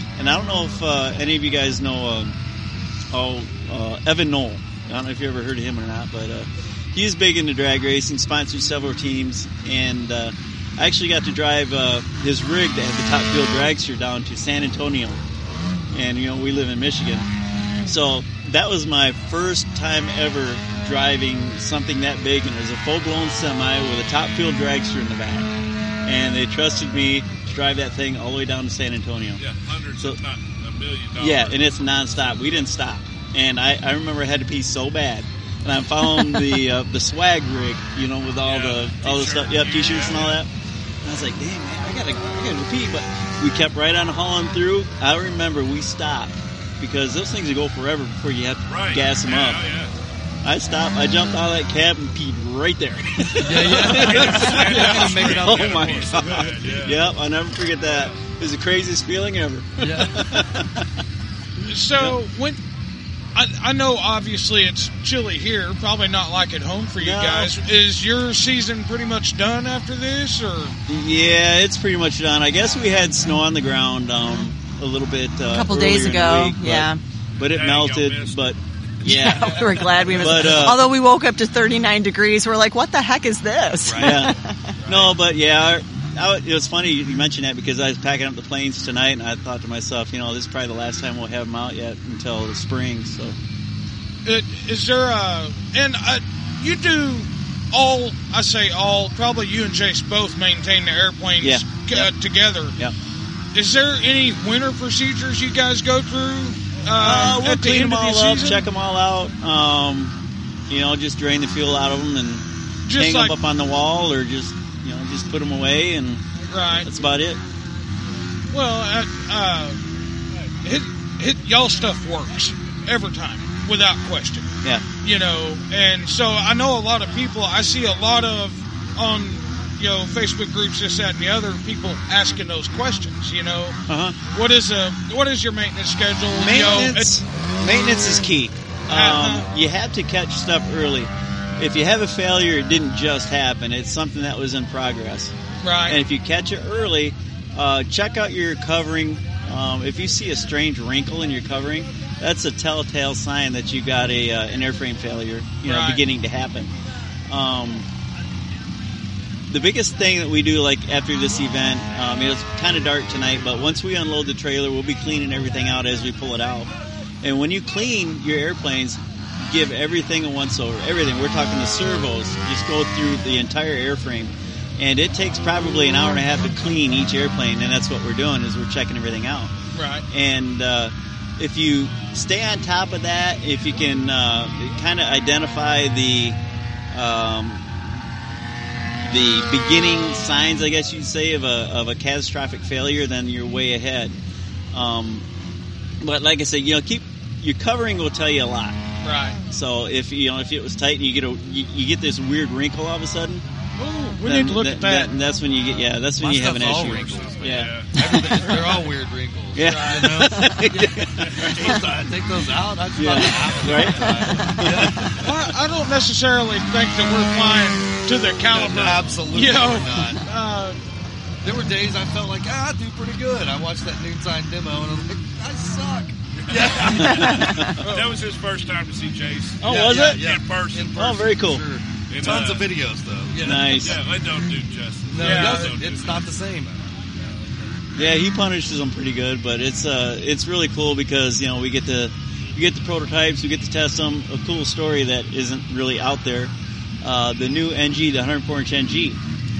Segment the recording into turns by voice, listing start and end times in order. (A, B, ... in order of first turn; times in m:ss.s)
0:00.2-0:02.4 A
0:03.1-0:15.2 A
0:15.9-0:17.3 A
0:17.8-0:25.5 A
0:26.0-0:29.4 A
0:29.4-0:32.2 B
0:31.2-0:40.5 A
0:38.4-0:40.4 B
0:41.0-0:49.6 A
0:48.7-0:49.9 B
0:50.4-1:00.8 A
0:53.4-0:56.5 C
0:53.7-0:57.1 B
0:59.8-1:00.2 C
1:01.6-1:02.6 D
1:03.4-1:10.8 D
1:07.0-1:07.5 A
1:10.9-1:20.9 A
1:15.5-1:17.0 E
1:17.4-1:18.5 B
1:19.0-1:24.6 E
1:19.1-1:20.5 C
1:23.8-1:24.3 C
1:24.0-1:24.3 A
1:24.9-1:25.1 B
1:24.9-1:33.4 A
1:34.2-1:42.8 D
1:41.4-1:42.1 A
1:43.5-1:48.6 D
1:47.0-1:50.2 A
1:50.7-1:52.4 A
1:52.9-1:53.4 D
1:53.0-1:57.4 A
1:56.5-1:56.9 D
1:58.5-1:59.8 D
2:00.6-2:04.5 D
2:05.0-2:17.2 D
2:13.9-2:14.2 A
2:16.4-2:25.4 A
2:18.9-2:19.5 D
2:25.6-2:26.0 D
2:25.9-2:36.7 A
2:35.6-2:36.0 D
2:37.3-2:37.9 A
2:39.5-2:46.7 A
2:47.2-2:59.5 A
2:59.7-3:00.0 D
3:00.1-3:06.4 A
3:06.9-3:07.9 A
3:09.0-3:14.1 A
3:14.7-3:15.2 A
3:16.0-3:18.8 A
3:19.0-3:19.4 D
3:19.5-3:23.4 A
3:23.8-3:25.1 D
3:24.2-3:28.5 A
3:26.2-3:35.1 C
3:26.7-3:27.9 B
3:29.6-3:31.8 A
3:29.6-3:30.1 D
3:31.2-3:31.6 B
3:33.0-3:35.1 A
3:35.2-3:40.8 D
3:38.5-3:40.2 C
3:41.4-3:47.6 C
3:47.0-3:47.7 A
3:47.8-3:48.2 D
3:47.8-3:51.0 B
3:49.6-3:50.2 A
3:49.6-3:53.9 C
3:51.0-3:51.6 A
3:52.1-3:52.7 B
3:53.4-3:54.0 A
3:53.8-3:56.3 B
3:55.1-3:56.8 C
3:55.2-3:55.8 D
3:58.0-4:09.2 A